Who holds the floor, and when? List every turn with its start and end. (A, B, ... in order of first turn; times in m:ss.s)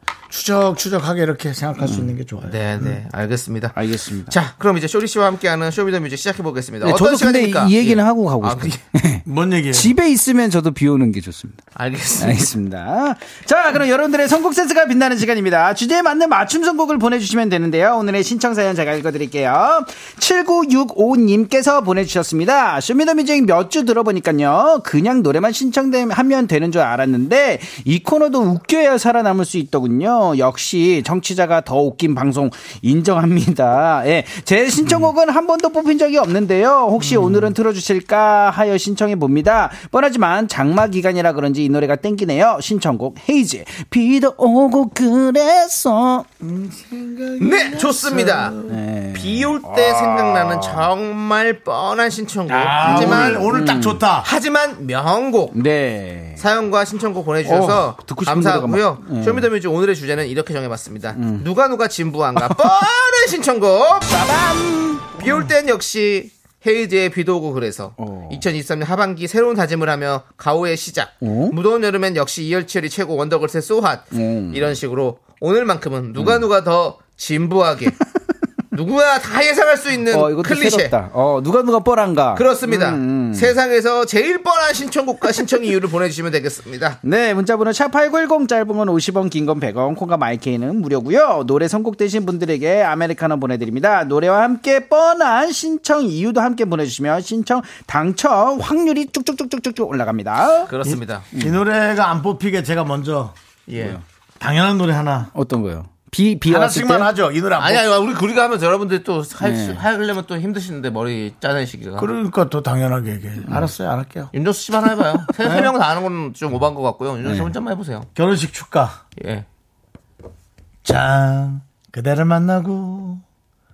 0:00.3-0:03.0 A
0:01.8-0:02.2 B
0:02.5-0:08.8 C
0:03.8-0:04.4 B
0:06.8-0:11.6 B
0:09.2-0:10.0 A
0:11.8-0:12.4 C
0:12.2-0:46.3 B
0:34.8-0:35.1 A
0:37.0-0:37.5 A
0:46.4-0:48.8 A
0:47.4-0:48.6 C
0:48.7-0:50.9 B
0:49.1-0:53.5 C
0:52.5-0:54.1 B
0:52.5-0:54.3 A
0:54.2-0:55.6 C
0:55.5-0:56.4 B
0:56.4-1:04.2 C
0:57.4-0:59.5 B
1:01.2-1:01.5 B
1:02.4-1:02.7 B
1:04.1-1:05.5 B
1:05.2-1:18.0 C
1:08.0-1:08.4 B
1:11.2-1:11.6 B
1:14.1-1:14.7 B
1:16.2-1:16.5 B
1:18.7-1:21.0 C
1:20.1-1:23.5 B
1:22.4-1:27.0 C
1:27.0-1:40.7 B
1:40.7-1:41.2 C
1:40.9-1:43.4 A
1:43.7-1:44.0 C
1:43.8-1:44.0 B
1:44.4-1:45.3 A
1:45.4-1:47.1 B
1:46.5-1:47.9 A
1:47.6-1:52.1 C
1:49.4-1:49.8 B
1:52.0-1:54.3 A
1:54.3-1:58.1 C
1:55.4-1:55.7 A
1:57.2-1:57.6 B
1:58.2-1:59.0 A
1:59.2-1:59.5 C
2:00.8-2:03.2 A